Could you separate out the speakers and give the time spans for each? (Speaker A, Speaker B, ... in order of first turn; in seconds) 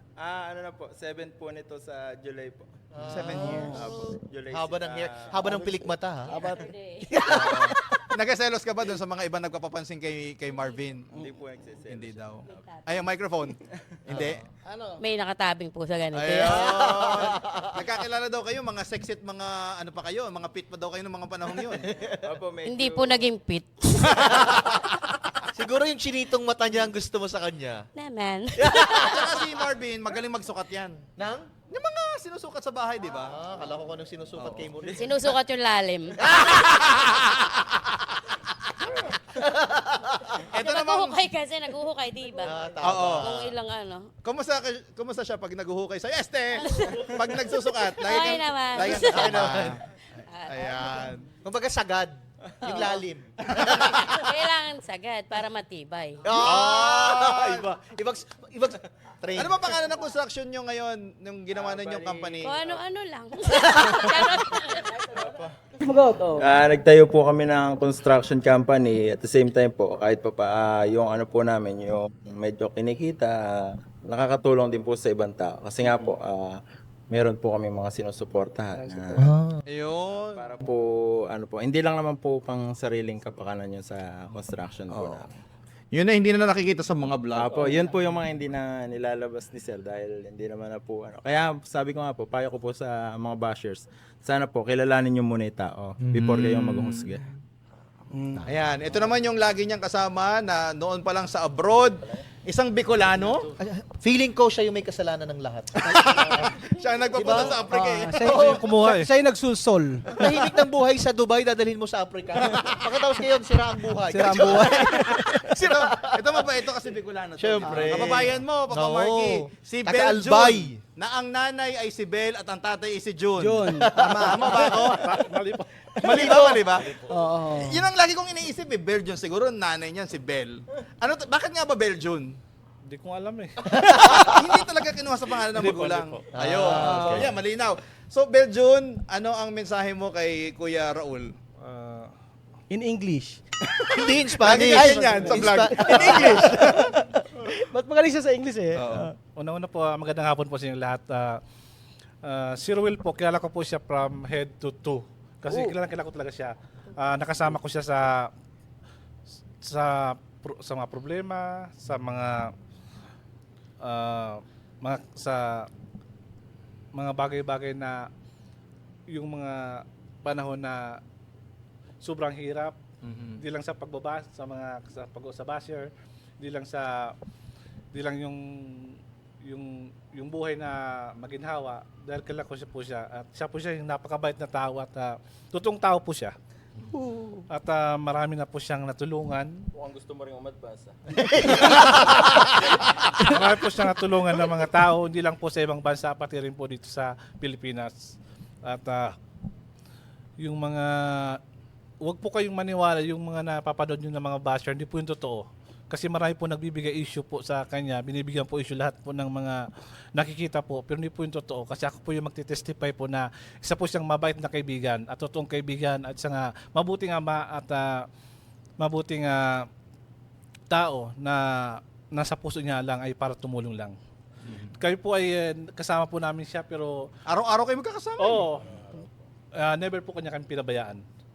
Speaker A: 0.2-5.8, 11.1-12.8, 22.1-23.3, 61.5-62.7, 65.1-65.5, 66.4-76.6, 77.1-79.3, 80.1-85.3, 87.3-97.2, 189.7-192.3, 228.6-229.1
Speaker B: 2.9-3.8, 4.5-6.3, 14.1-14.4, 16.5-17.8, 25.5-27.9, 28.6-29.4, 31.2-31.5, 33.2-35.3, 36.2-36.6, 39.3-40.4, 42.4-43.5, 48.8-49.8, 51.4-54.0, 56.2-59.9, 79.2-79.6, 103.6-106.5, 107.1-107.6, 108.2-108.8, 110.1-116.5, 117.4-120.8, 123.9-125.0, 126.0-126.9, 133.9-134.3, 136.3-137.3, 143.9-146.7, 191.2-192.4
Speaker C: 3.0-3.9, 7.2-11.1, 11.9-14.4, 16.1-22.0, 28.6-31.0, 31.7-33.4, 34.4-34.6, 36.2-37.8, 40.5-41.1, 42.8-43.3, 44.2-49.8, 50.5-51.2, 53.6-54.1, 56.4-57.7, 59.4-62.7, 79.7-80.5, 84.9-85.3, 85.9-87.9, 96.1-97.1, 98.4-103.5, 105.8-108.7, 110.1-110.4, 114.3-125.2, 126.0-132.4, 134.0-141.3, 143.8-146.9, 148.8-149.1, 173.0-173.4, 224.4-224.7, 227.3-228.5
Speaker D: 3.4-3.8, 6.3-6.6, 7.1-8.0, 65.8-66.5, 78.8-79.2, 98.1-98.4, 107.7-110.0, 114.1-115.4, 117.6-118.1, 123.4-124.8, 127.1-127.8, 142.7-143.4, 144.4-149.1, 155.5-155.7, 186.9-187.4
Speaker E: 6.3-7.4, 10.5-10.7, 12.4-12.8, 15.0-17.0, 22.6-24.6, 27.9-29.0, 34.9-36.2, 40.5-44.1, 46.7-49.7, 50.3-51.1, 52.6-53.0, 53.6-56.3, 62.4-65.1
Speaker F: 108.7-109.0, 124.8-125.8, 132.8-134.2, 135.5-137.3, 141.6-142.1, 149.3-151.4, 152.2-158.3, 159.6-162.5, 163.8-165.7, 166.9-168.1, 169.1-171.0, 172.0-172.8, 173.4-177.2, 177.9-186.3, 187.5-189.7, 193.3-197.9, 198.6-199.1, 200.4-201.4, 202.0-218.1, 218.8-219.7, 220.7-223.9, 224.8-227.1, 228.2-228.8, 229.5-231.0